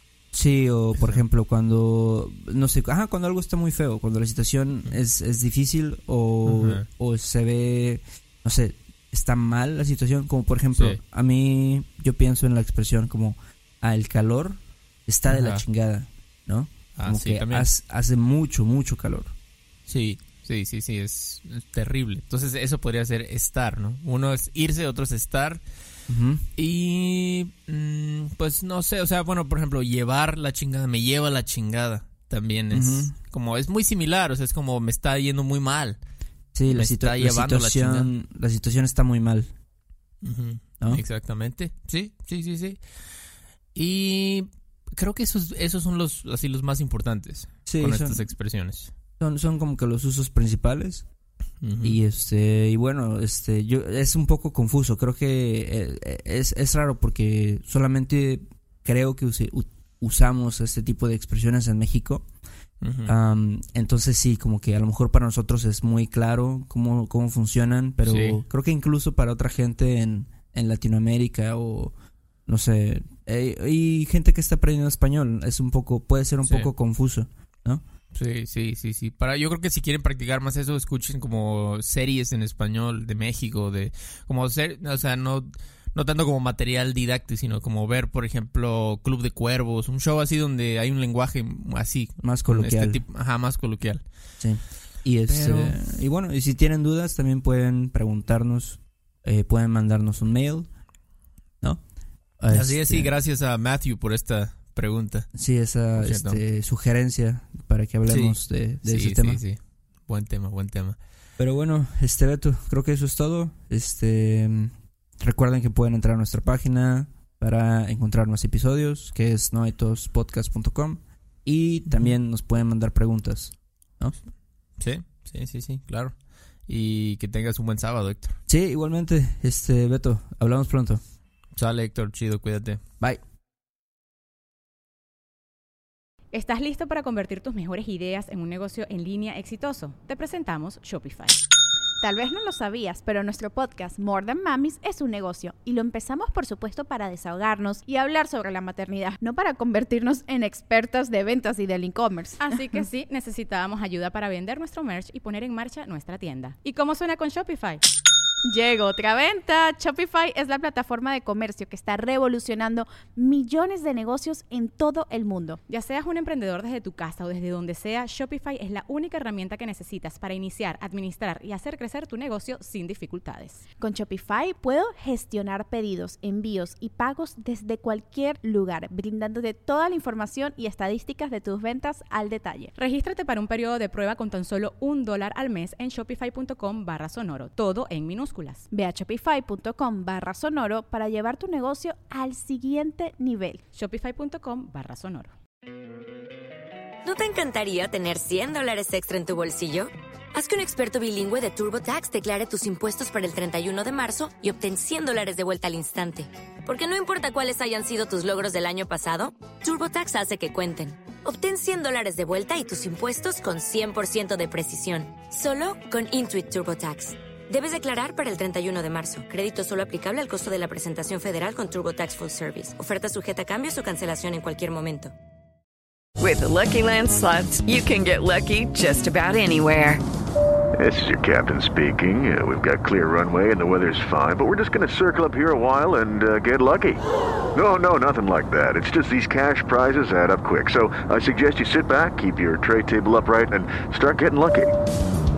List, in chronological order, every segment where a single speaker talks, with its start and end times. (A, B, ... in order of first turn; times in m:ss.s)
0:00.3-0:19.3 A
0:01.0-0:01.2 B
0:06.4-0:06.8 B
0:10.7-0:11.0 B
0:15.3-0:15.6 B
0:17.0-0:17.7 B
0:19.9-0:25.6 B
0:26.1-0:26.4 A
0:26.6-0:36.0 B
0:32.7-0:33.1 A
0:36.5-0:39.5 A
0:36.7-0:38.1 B
0:40.2-0:42.8 B
0:43.7-0:48.9 B
0:47.6-0:48.2 A
0:49.2-0:51.0 A
0:51.6-0:52.0 B
0:51.8-1:02.2 A
1:02.8-1:03.1 B
1:03.0-1:11.9 A
1:08.0-1:08.4 B
1:12.5-1:17.8 A
1:16.4-1:16.7 B
1:18.1-1:34.0 B
1:32.2-1:33.0 A
1:34.4-1:40.7 A
1:35.2-1:35.8 B
1:42.4-1:43.1 A
1:42.5-1:45.3 B
1:45.3-1:49.4 A
1:45.8-1:46.4 B
1:48.1-1:51.0 B
1:51.4-2:04.2 A
2:01.9-2:02.2 B
2:04.8-2:08.3 B
2:08.5-2:11.0 A
2:11.6-2:12.8 B
2:16.3-2:21.4 C
2:22.0-2:32.9 D
2:32.4-2:37.8 C
2:38.4-2:45.6 D
2:45.7-2:53.6 C
2:53.8-3:02.7 D
3:02.8-3:08.6 C
3:08.7-3:13.6 D
3:13.7-3:15.3 C
3:17.0-3:45.1 E
3:46.2-3:50.0 F
3:50.8-3:57.0 G
3:57.5-4:04.7 G